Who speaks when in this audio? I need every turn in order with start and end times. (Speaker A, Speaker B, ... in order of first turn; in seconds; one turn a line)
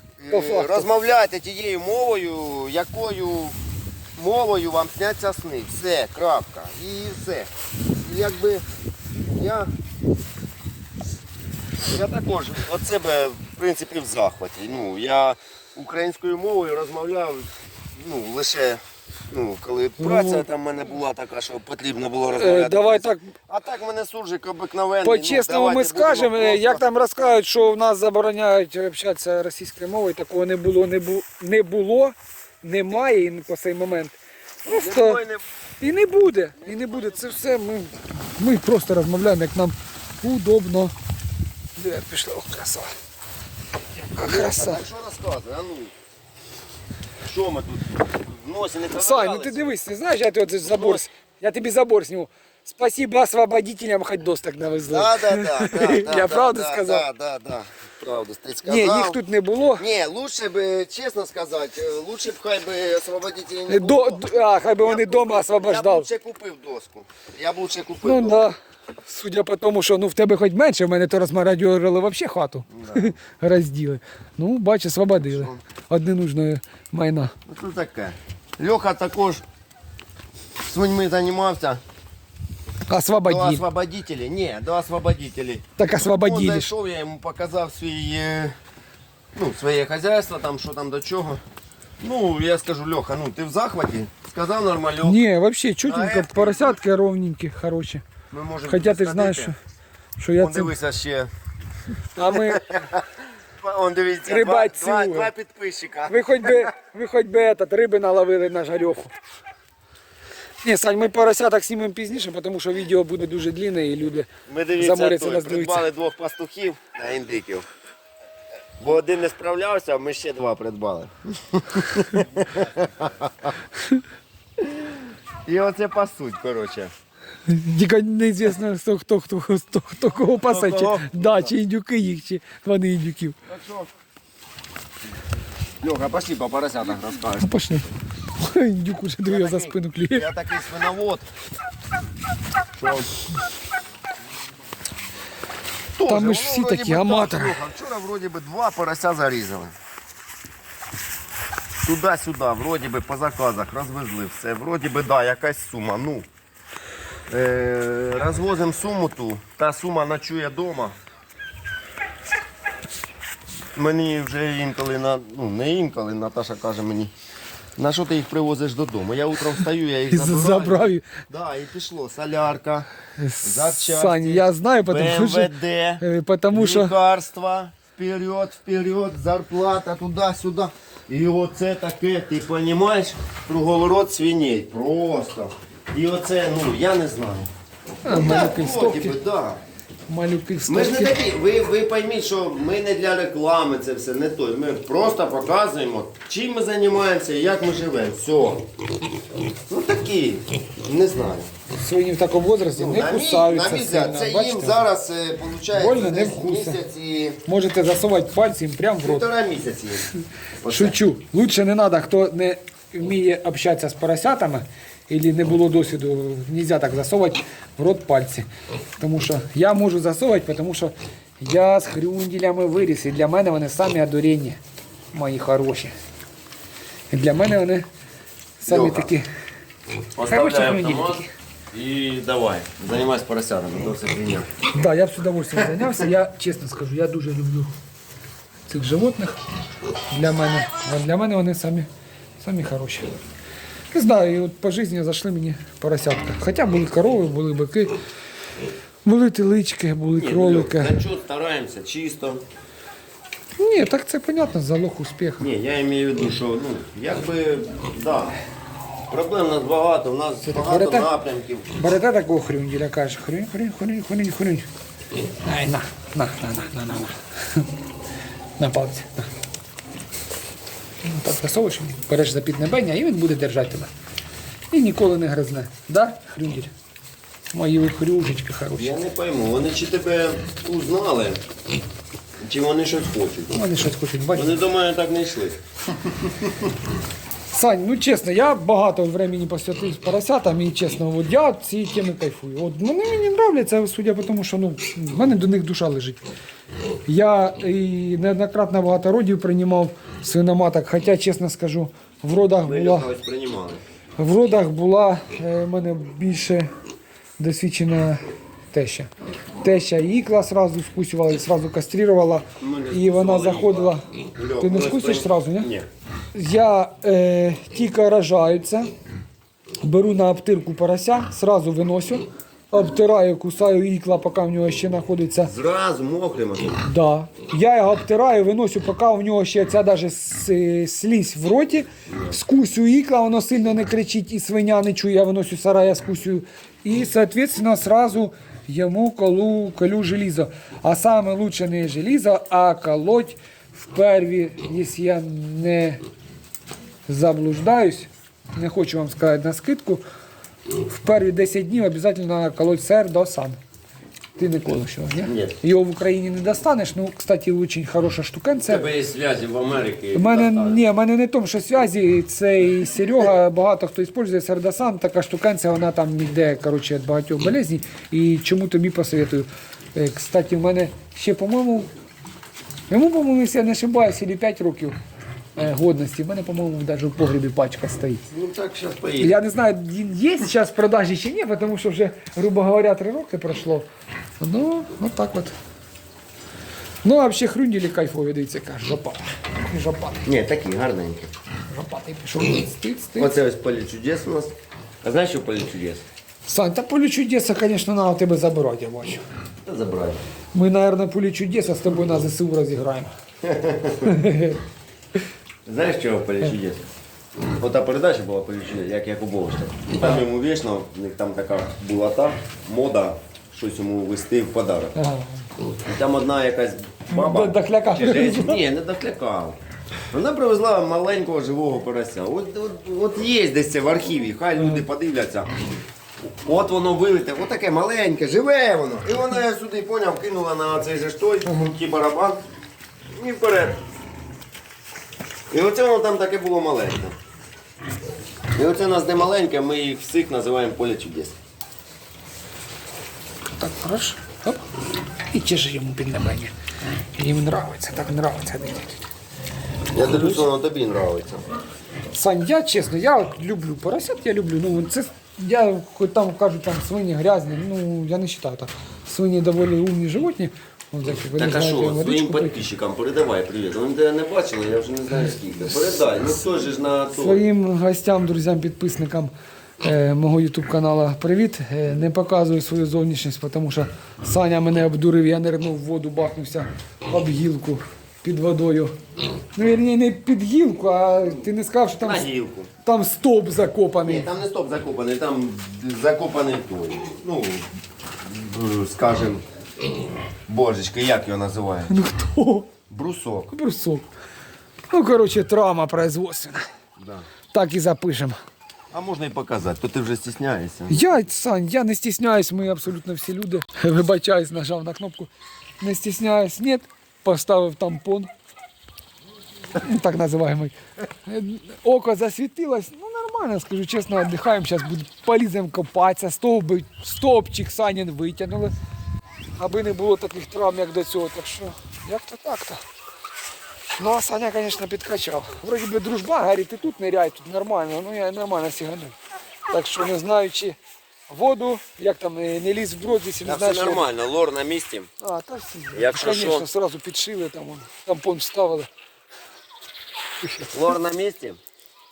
Speaker A: 0.2-3.5
Speaker B: 0.3-0.9
Speaker A: 4.2-7.5
Speaker A: 8.0-8.6
Speaker A: 9.3-9.7
Speaker A: 11.8-26.8
Speaker B: 20.0-20.4
Speaker B: 22.3-23.3
Speaker B: 25.0-35.2
Speaker A: 34.6-35.4
Speaker B: 35.8-40.9
Speaker A: 36.6-37.3
Speaker B: 41.8-42.9
Speaker B: 44.1-44.8
Speaker A: 44.2-45.9
Speaker A: 47.2-49.6
Speaker B: 48.9-57.0
Speaker A: 50.6-51.0
Speaker A: 54.9-59.2
Speaker B: 58.6-59.8
Speaker A: 59.8-64.2
Speaker B: 63.7-66.1
Speaker A: 64.8-68.4
Speaker B: 68.0-77.3
Speaker A: 72.7-73.1
Speaker A: 75.2-75.6
Speaker A: 77.5-79.4
Speaker A: 80.6-81.8
Speaker B: 82.9-83.6
Speaker A: 83.2-88.5
Speaker B: 85.8-86.7
Speaker A: 89.3-91.4
Speaker A: 92.0-95.2
Speaker B: 95.0-98.0
Speaker A: 95.8-96.8
Speaker A: 98.3-99.5
Speaker B: 98.7-99.5
Speaker B: 100.2-100.7
Speaker A: 100.3-101.3
Speaker B: 102.1-102.7
Speaker A: 102.2-103.0
Speaker A: 103.6-106.7
Speaker B: 104.2-105.3
Speaker B: 106.1-109.2
Speaker B: 110.6-115.9
Speaker A: 114.5-117.7
Speaker A: 118.8-123.5
Speaker A: 124.6-124.9
Speaker A: 125.5-126.9
Speaker B: 127.5-133.4
Speaker A: 130.4-131.5
Speaker A: 133.5-133.9
Speaker A: 135.8-137.5
Speaker B: 137.4-140.3
Speaker A: 139.2-141.3
Speaker A: 142.7-143.1
Speaker A: 145.9-149.7
Speaker B: 146.1-147.6
Speaker A: 151.8-156.3
Speaker A: 157.3-160.9
Speaker A: 163.7-167.1
Speaker A: 167.8-172.9
Speaker B: 170.1-171.1
Speaker B: 173.2-176.9
Speaker A: 173.4-187.5
Speaker B: 188.0-189.2
Speaker A: 188.0-189.6
Speaker B: 190.1-191.1
Speaker A: 190.7-198.6
Speaker A: 199.7-201.5
Speaker B: 201.7-204.8
Speaker A: 202.7-207.4
Speaker B: 205.7-206.8
Speaker B: 207.4-209.2
Speaker A: 209.0-210.1
Speaker A: 210.6-211.0
Speaker B: 210.7-218.5
Speaker B: 219.0-224.6
Speaker B: 225.1-225.9
Speaker B: 227.1-227.9
Speaker B: 228.6-229.2
Speaker A: 228.7-229.1
Speaker A: 230.2-234.5
Speaker B: 230.3-231.3
Speaker B: 234.7-237.7
Speaker B: 238.7-239.4
Speaker B: 240.1-241.9
Speaker B: 242.4-243.1
Speaker B: 243.9-247.9
Speaker B: 249.0-251.0
Speaker A: 250.2-252.4
Speaker B: 253.6-255.5
Speaker A: 255.4-258.4
Speaker A: 259.1-261.7
Speaker B: 260.4-261.1
Speaker B: 261.7-264.7
Speaker B: 265.4-267.7
Speaker B: 268.6-269.3
Speaker B: 271.0-273.9
Speaker B: 274.7-276.7
Speaker B: 277.5-278.9
Speaker A: 278.8-281.4
Speaker A: 282.4-283.6
Speaker B: 283.5-284.6
Speaker A: 284.3-286.7
Speaker B: 287.5-296.2
Speaker B: 297.1-303.1
Speaker A: 302.6-303.8
Speaker B: 304.2-306.7
Speaker B: 307.4-308.2
Speaker B: 308.7-309.1
Speaker B: 309.6-314.1
Speaker A: 312.6-315.9
Speaker B: 314.6-315.7
Speaker B: 316.3-318.9
Speaker B: 319.8-325.5
Speaker A: 325.4-326.8
Speaker B: 326.8-346.0
Speaker B: 347.1-350.0
Speaker B: 350.8-353.6
Speaker B: 354.4-358.9
Speaker A: 355.2-355.6
Speaker A: 358.6-360.8
Speaker B: 360.1-371.9
Speaker B: 372.9-375.0
Speaker B: 375.5-378.2
Speaker A: 378.3-379.4
Speaker B: 379.2-383.9
Speaker B: 384.4-385.5
Speaker B: 387.0-390.3
Speaker A: 390.2-391.3
Speaker B: 391.7-393.3
Speaker A: 393.2-396.0
Speaker B: 396.4-399.2
Speaker A: 399.6-400.2
Speaker B: 400.5-403.1
Speaker A: 403.4-404.1
Speaker B: 404.0-404.6
Speaker A: 405.6-406.8
Speaker A: 407.6-414.9
Speaker B: 414.9-415.4
Speaker A: 415.8-419.6
Speaker B: 417.1-418.6
Speaker A: 420.1-425.5
Speaker A: 426.3-432.4
Speaker A: 433.1-433.8
Speaker A: 435.5-437.1
Speaker A: 438.5-441.4
Speaker B: 443.6-444.6
Speaker B: 445.3-446.5
Speaker B: 447.1-449.0
Speaker A: 449.9-451.4
Speaker B: 450.0-450.5
Speaker B: 452.1-462.6
Speaker A: 461.4-467.4
Speaker B: 465.1-466.1
Speaker B: 467.1-478.9
Speaker B: 479.5-482.3
Speaker A: 482.0-482.7
Speaker B: 482.8-484.3
Speaker A: 484.0-487.7
Speaker A: 488.2-489.4
Speaker A: 490.5-491.9
Speaker B: 491.9-492.7
Speaker A: 492.9-493.5
Speaker B: 493.5-494.1
Speaker B: 494.9-496.7
Speaker A: 497.0-497.2
Speaker B: 497.5-498.4
Speaker A: 498.9-501.1
Speaker B: 500.9-505.3
Speaker B: 505.8-508.3
Speaker B: 509.7-518.7
Speaker B: 519.6-522.8
Speaker B: 523.9-529.1
Speaker B: 529.7-530.8
Speaker B: 531.3-534.1
Speaker A: 533.4-535.1
Speaker B: 535.2-538.9
Speaker A: 535.9-536.7
Speaker B: 540.4-540.7
Speaker A: 540.7-541.6